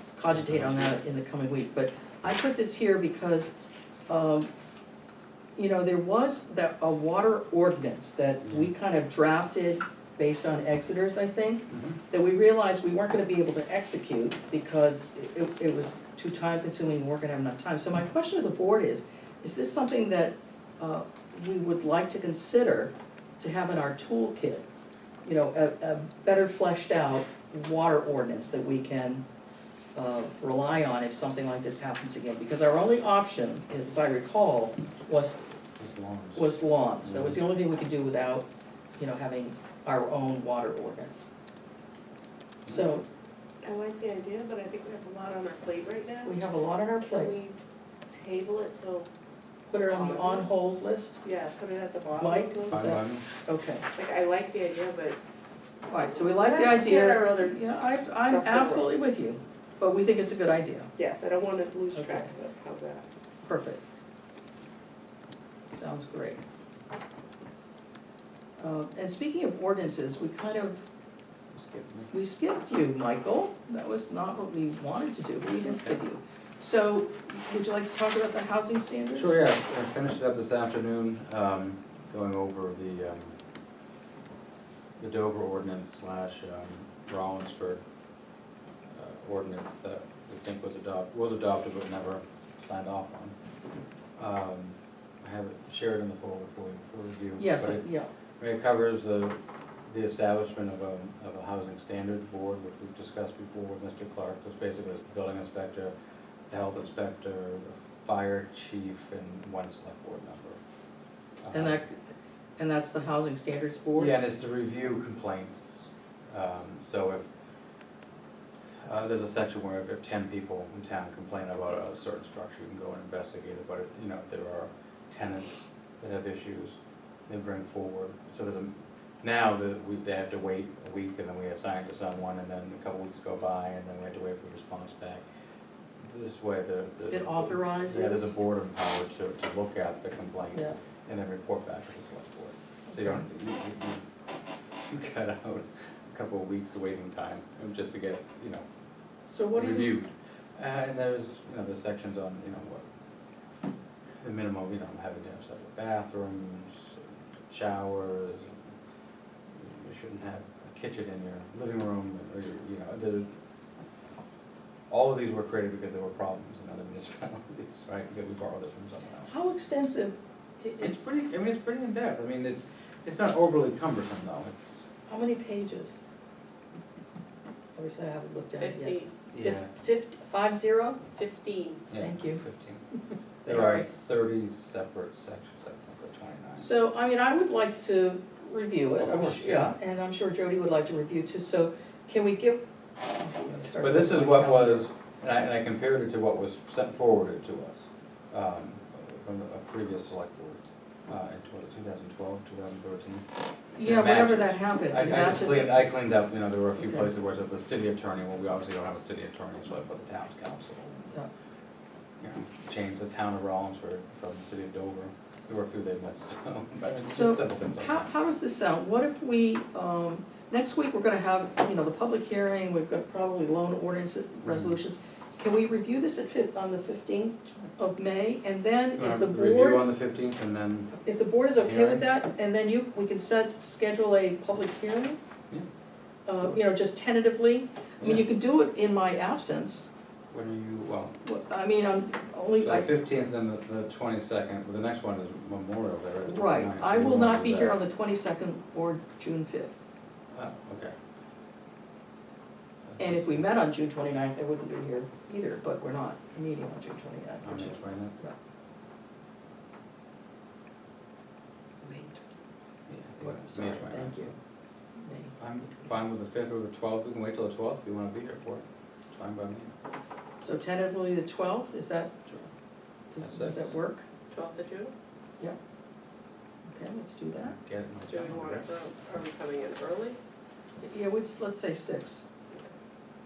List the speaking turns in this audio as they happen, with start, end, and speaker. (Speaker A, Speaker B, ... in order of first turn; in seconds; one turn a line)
Speaker A: 0.1-3.5
Speaker B: 0.3-1.0
Speaker A: 4.1-4.5
Speaker A: 5.5-24.6
Speaker B: 8.4-8.7
Speaker B: 11.7-12.0
Speaker A: 25.2-29.2
Speaker A: 29.9-35.4
Speaker B: 35.8-36.5
Speaker A: 36.3-38.5
Speaker B: 37.0-37.4
Speaker A: 39.0-41.3
Speaker A: 42.6-43.0
Speaker C: 43.6-46.3
Speaker A: 46.2-47.3
Speaker C: 47.0-47.6
Speaker C: 48.1-49.1
Speaker A: 49.7-51.2
Speaker C: 49.9-50.6
Speaker C: 51.2-52.9
Speaker A: 52.2-53.8
Speaker B: 52.7-53.2
Speaker C: 53.9-55.2
Speaker A: 55.9-60.9
Speaker C: 55.9-58.9
Speaker C: 61.0-63.0
Speaker A: 61.9-62.3
Speaker A: 63.4-63.8
Speaker A: 65.7-66.4
Speaker A: 68.6-70.8
Speaker B: 71.5-72.1
Speaker A: 72.1-79.5
Speaker B: 75.6-76.0
Speaker B: 79.1-83.4
Speaker B: 85.0-87.8
Speaker B: 88.9-93.3
Speaker B: 94.2-97.8
Speaker A: 97.4-98.1
Speaker B: 98.4-105.9
Speaker B: 106.5-110.6
Speaker B: 111.4-111.8
Speaker A: 111.5-112.0
Speaker A: 112.6-114.2
Speaker B: 113.9-117.3
Speaker B: 118.8-135.2
Speaker B: 136.0-144.0
Speaker A: 137.1-138.3
Speaker A: 142.9-143.3
Speaker B: 144.8-148.6
Speaker A: 149.3-149.9
Speaker B: 149.5-152.8
Speaker B: 154.2-158.6
Speaker B: 159.5-163.3
Speaker B: 164.9-169.3
Speaker A: 169.3-170.9
Speaker B: 170.8-174.8
Speaker A: 175.1-176.0
Speaker A: 177.8-181.0
Speaker C: 178.6-179.1
Speaker B: 179.3-179.7
Speaker C: 181.1-181.9
Speaker B: 181.9-182.8
Speaker A: 181.9-182.4
Speaker A: 183.4-183.9
Speaker B: 183.4-186.7
Speaker A: 186.6-194.9
Speaker B: 189.0-189.7
Speaker B: 193.7-203.2
Speaker A: 203.8-205.8
Speaker B: 203.8-211.1
Speaker A: 206.8-207.1
Speaker B: 212.2-218.1
Speaker A: 217.0-229.9
Speaker B: 224.4-224.7
Speaker B: 229.0-230.9
Speaker A: 230.9-235.2
Speaker B: 231.6-232.1
Speaker A: 236.2-239.9
Speaker B: 238.0-238.2
Speaker B: 240.3-241.2
Speaker A: 241.2-243.0
Speaker B: 242.6-247.8
Speaker A: 246.2-249.8
Speaker B: 250.3-250.9
Speaker B: 252.8-253.5
Speaker A: 253.0-258.3
Speaker B: 257.4-258.1
Speaker C: 261.8-262.1
Speaker B: 262.9-264.3
Speaker A: 263.2-264.3
Speaker A: 265.0-265.9
Speaker B: 265.4-269.7
Speaker A: 270.4-272.1
Speaker A: 273.1-274.1
Speaker B: 273.2-273.7
Speaker C: 274.3-274.9
Speaker A: 276.6-277.6
Speaker B: 277.4-278.7
Speaker C: 278.1-280.2
Speaker A: 280.8-282.3